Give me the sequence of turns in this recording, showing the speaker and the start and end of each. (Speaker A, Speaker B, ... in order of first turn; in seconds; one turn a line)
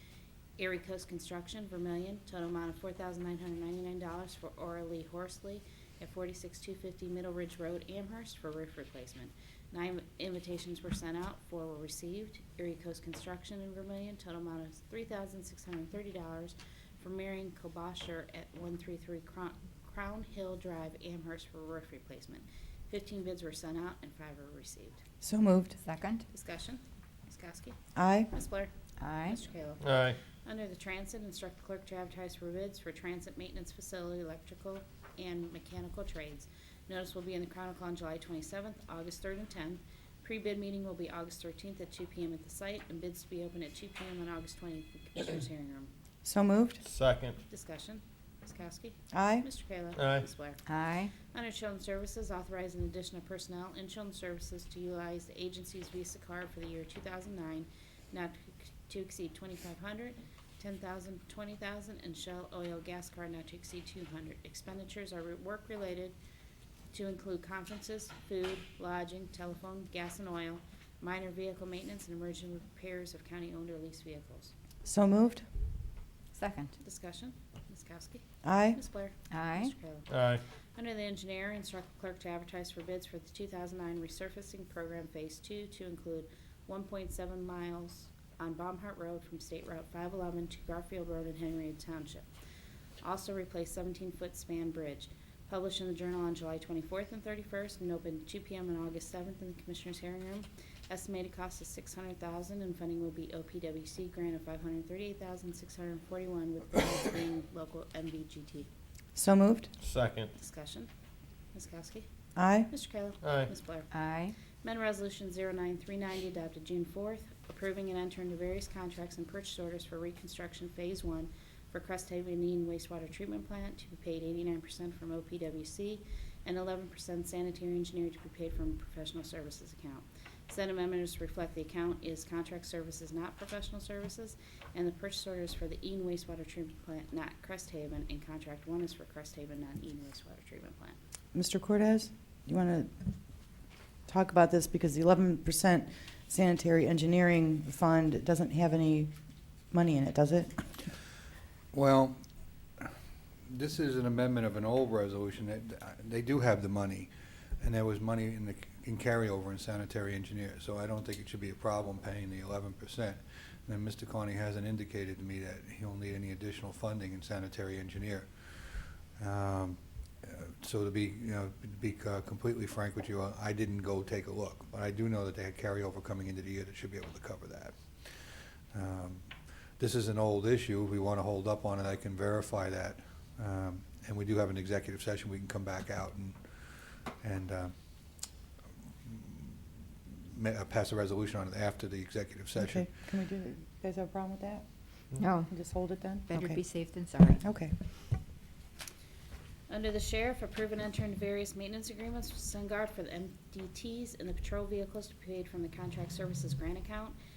Speaker A: 0.6-25.0
Speaker B: 25.2-25.8
Speaker C: 25.8-26.2
Speaker A: 26.3-27.8
Speaker B: 27.9-28.3
Speaker A: 28.3-45.9
Speaker C: 29.0-29.4
Speaker D: 29.8-30.2
Speaker B: 46.2-46.8
Speaker D: 46.8-47.4
Speaker A: 47.5-50.6
Speaker B: 49.1-49.5
Speaker D: 49.9-50.2
Speaker C: 50.6-51.1
Speaker A: 51.2-66.1
Speaker A: 66.9-74.5
Speaker B: 74.8-75.4
Speaker C: 76.3-76.7
Speaker A: 76.8-80.1
Speaker B: 78.4-78.8
Speaker C: 79.3-79.7
Speaker D: 80.1-80.4
Speaker A: 80.8-92.3
Speaker A: 93.0-108.7
Speaker B: 109.2-109.7
Speaker D: 109.8-110.3
Speaker A: 110.3-110.9
Speaker A: 111.5-112.0
Speaker B: 112.3-112.7
Speaker A: 112.7-113.9
Speaker D: 113.2-113.5
Speaker C: 113.9-114.3
Speaker A: 114.6-140.9
Speaker B: 141.3-143.1
Speaker B: 144.1-149.1
Speaker B: 149.7-150.9
Speaker E: 151.7-152.2
Speaker E: 153.4-188.3
Speaker E: 189.0-192.9
Speaker B: 192.6-194.7
Speaker C: 195.2-197.4
Speaker B: 195.5-197.7
Speaker A: 199.7-207.2